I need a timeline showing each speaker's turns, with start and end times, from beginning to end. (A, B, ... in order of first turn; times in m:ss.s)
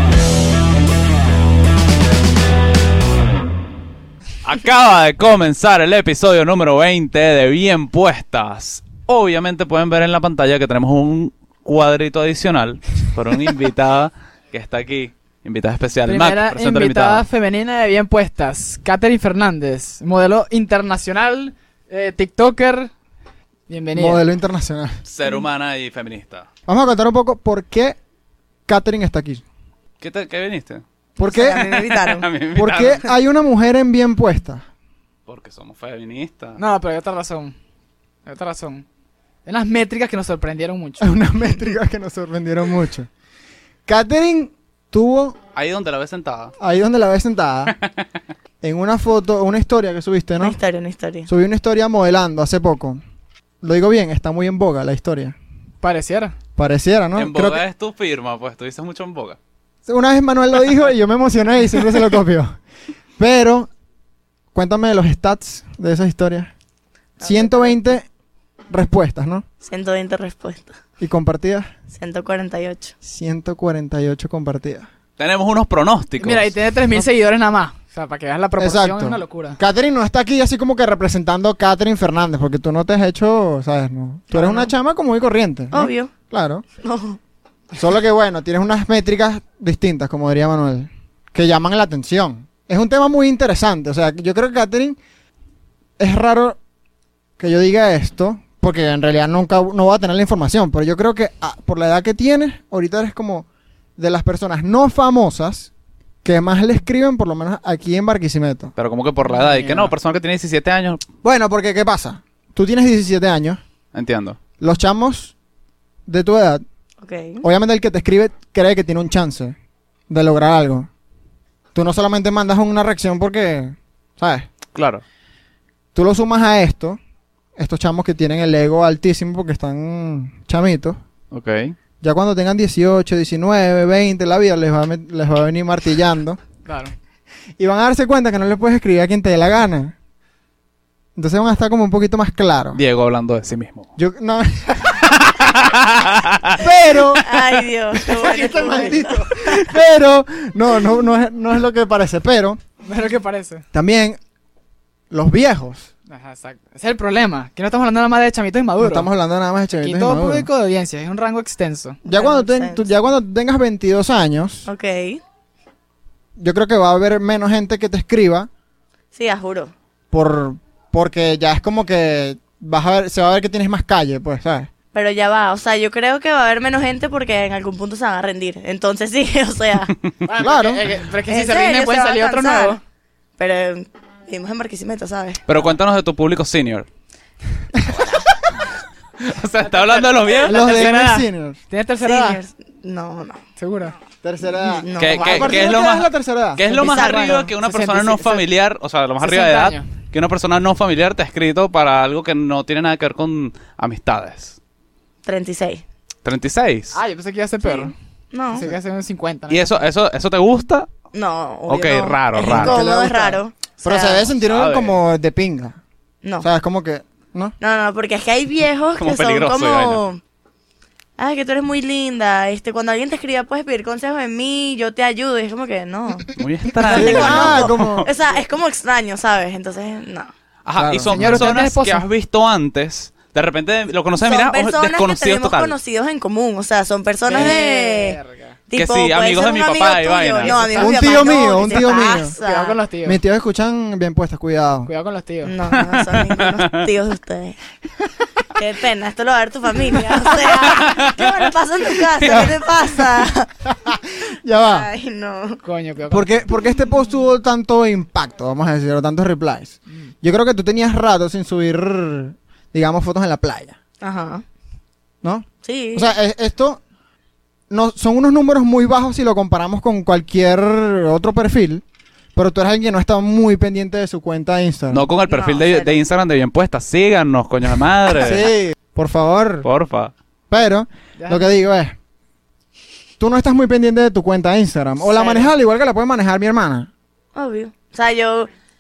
0:04.4-0:17.2 A
0:16.0-0:22.9 B
0:23.7-0:24.2 B
0:24.0-0:25.0 C
0:25.0-0:26.5 A
0:26.7-0:28.0 C
0:28.7-0:29.4 C
0:30.0-0:30.8 A
0:31.2-0:31.7 C
0:31.3-0:32.3 D
0:31.6-0:33.0 A
0:32.6-0:34.6 C
0:35.3-0:36.6 A
0:36.6-0:37.5 B
0:38.3-0:38.8 B
0:39.4-0:41.1 B
0:41.0-0:43.1 C
0:43.9-0:45.4 C
0:45.6-0:46.5 A
0:46.6-0:47.8 C
0:48.6-0:50.6 C
0:50.4-0:51.3 D
0:51.3-0:53.0 C
0:53.6-0:55.4 C
0:55.8-0:56.3 B
0:56.6-0:57.6 C
0:57.1-0:59.4 A
0:59.9-1:02.6 C
1:03.2-1:03.7 C
1:04.5-1:06.5 C
1:07.2-1:07.8 B
1:07.2-1:08.1 C
1:08.7-1:09.4 C
1:09.6-1:10.7 D
1:11.0-1:11.7 C
1:11.9-1:13.0 D
1:13.0-1:14.9 C
1:15.2-1:16.5 A
1:16.2-1:19.6 B
1:18.6-1:26.6 C
1:24.3-1:24.7 B
1:25.7-1:26.1 D
1:26.8-1:27.2 D
1:27.7-1:35.0 C
1:36.0-1:36.6 C
1:37.4-1:43.4 C
1:44.0-1:45.7 C
1:46.2-1:48.7 C
1:48.8-1:51.0 A
1:49.2-1:49.9 B
1:51.2-1:53.6 C
1:53.9-1:54.4 A
1:54.6-1:55.3 C
1:56.1-1:56.6 C
1:57.0-1:57.4 D
1:57.4-1:59.5 C
2:00.1-2:00.9 C
2:01.7-2:04.5 C
2:04.7-2:05.0 A
2:05.9-2:07.0 C
2:07.6-2:11.0 C
2:11.3-2:11.8 A
2:12.0-2:16.4 C
2:16.6-2:16.9 B
2:17.6-2:19.9 C
2:21.2-2:22.8 C
2:22.7-2:23.9 A
2:24.0-2:25.5 C
2:25.3-2:26.6 A
2:26.6-2:27.3 C
2:27.2-2:29.7 D
2:28.1-2:32.6 C
2:28.1-2:29.0 B
2:32.8-2:33.6 B
2:33.7-2:34.2 C
2:35.1-2:35.9 C
2:36.1-2:39.1 B
2:38.8-2:40.5 C
2:39.8-2:42.0 B
2:42.0-2:42.8 D
2:42.1-2:44.7 C
2:44.7-2:45.2 D
2:46.4-2:48.5 C
2:49.1-2:49.7 D
2:50.1-2:54.7 C
2:54.9-2:59.9 D
3:00.2-3:02.8 B
3:00.4-3:00.9 C
3:01.3-3:02.8 D
3:03.4-3:05.4 D
3:05.5-3:06.9 A
3:07.8-3:08.3 D
3:09.2-3:10.9 A
3:09.6-3:12.4 B
3:10.5-3:11.6 C
3:12.0-3:13.4 D
3:13.6-3:14.0 B
3:14.2-3:16.6 C
3:14.6-3:15.7 D
3:14.9-3:24.6 A
3:16.7-3:17.5 D
3:16.8-3:18.4 B
3:19.2-3:19.8 B
3:25.2-3:25.8 D
3:26.2-3:27.0 A
3:26.9-3:27.9 B
3:27.6-3:28.7 D
3:28.5-3:29.8 B
3:29.5-3:30.9 A
3:31.1-3:34.3 D
3:31.7-3:32.8 A
3:32.5-3:35.8 C
3:34.4-3:35.0 A
3:36.2-3:36.5 D
3:36.4-3:37.5 C
3:37.6-3:40.2 D
3:39.0-3:40.0 A
3:41.2-3:50.3 D
3:46.4-3:48.1 A
3:46.8-3:48.1 C
3:50.6-3:55.8 A
3:50.8-3:51.5 C
3:51.1-3:52.0 B
3:54.2-3:58.2 D
3:57.2-3:58.6 B
3:58.7-4:02.8 D
3:58.7-4:00.7 A
4:00.4-4:03.2 B
4:00.8-4:02.3 C
4:03.0-4:04.9 C
4:04.9-4:05.6 B
4:05.4-4:07.6 D
4:05.7-4:06.9 A
4:08.5-4:13.5 D
4:10.5-4:11.5 A
4:12.2-4:12.5 A
4:12.2-4:12.6 C
4:13.7-4:14.9 C
4:14.5-4:15.6 D
4:15.6-4:16.4 B
4:16.1-4:23.8 C
4:24.0-4:24.4 D
4:25.2-4:26.8 C
4:25.6-4:26.1 D
4:27.7-4:31.8 C
4:32.4-4:35.1 C
4:34.9-4:38.5 A
4:35.3-4:36.0 D
4:38.2-4:39.7 C
4:39.6-4:40.1 A
4:40.5-4:42.0 C
4:41.2-4:41.6 B
4:43.2-4:46.9 C
4:45.1-4:45.4 B
4:47.4-4:48.5 D